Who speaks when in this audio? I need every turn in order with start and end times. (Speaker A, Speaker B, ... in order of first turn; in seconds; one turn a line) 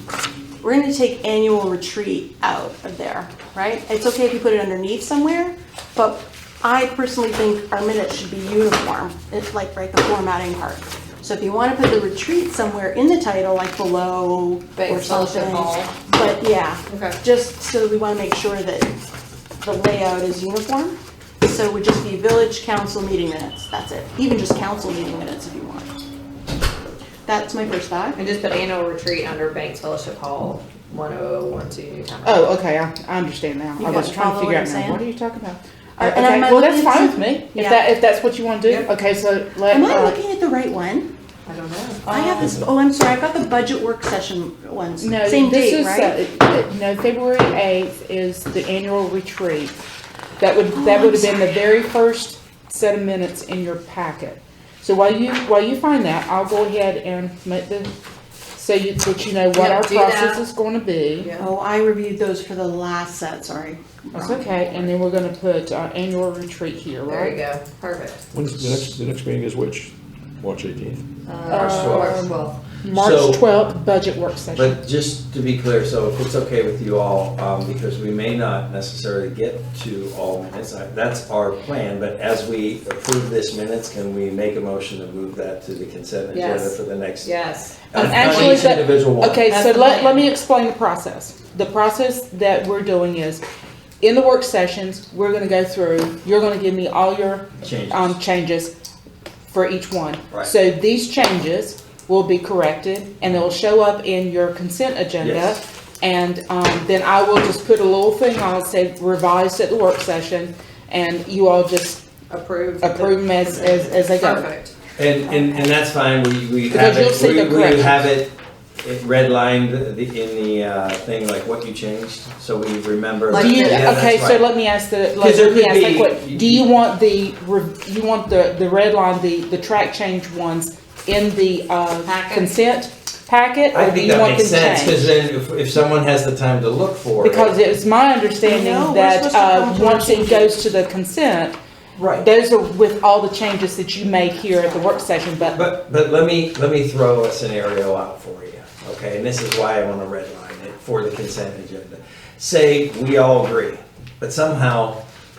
Speaker A: 0.6-18.9
Speaker B: 14.8-15.9
Speaker B: 16.9-17.2
Speaker A: 19.6-25.9
Speaker A: 27.3-28.2
Speaker B: 28.2-32.5
Speaker C: 32.2-40.2
Speaker A: 33.8-35.0
Speaker A: 36.0-37.8
Speaker A: 39.7-41.1
Speaker B: 41.5-42.1
Speaker A: 42.1-46.1
Speaker C: 42.1-42.6
Speaker C: 45.0-49.8
Speaker C: 50.4-57.9
Speaker A: 50.7-51.4
Speaker C: 58.5-61.3
Speaker B: 59.5-60.4
Speaker B: 61.2-61.5
Speaker A: 61.4-64.9
Speaker C: 64.1-67.4
Speaker B: 67.1-68.2
Speaker D: 68.3-71.0
Speaker B: 71.3-72.6
Speaker C: 71.5-74.8
Speaker E: 71.5-72.3
Speaker E: 72.9-73.4
Speaker E: 74.5-87.3
Speaker B: 86.3-88.7
Speaker E: 87.9-89.5
Speaker C: 87.9-93.4
Speaker B: 89.5-90.2
Speaker C: 94.0-98.7
Speaker E: 97.6-98.2
Speaker C: 99.5-112.0
Speaker E: 105.2-105.6
Speaker B: 112.3-114.7
Speaker C: 112.8-114.5
Speaker E: 115.0-124.5
Speaker C: 116.7-118.1
Speaker B: 123.3-124.1
Speaker C: 123.3-135.1
Speaker E: 125.2-126.7
Speaker B: 132.1-132.6
Speaker E: 133.7-137.6
Speaker C: 137.2-141.6
Speaker A: 138.4-140.6
Speaker E: 141.9-142.3
Speaker C: 142.2-145.7
Speaker A: 144.4-145.1
Speaker E: 145.5-155.0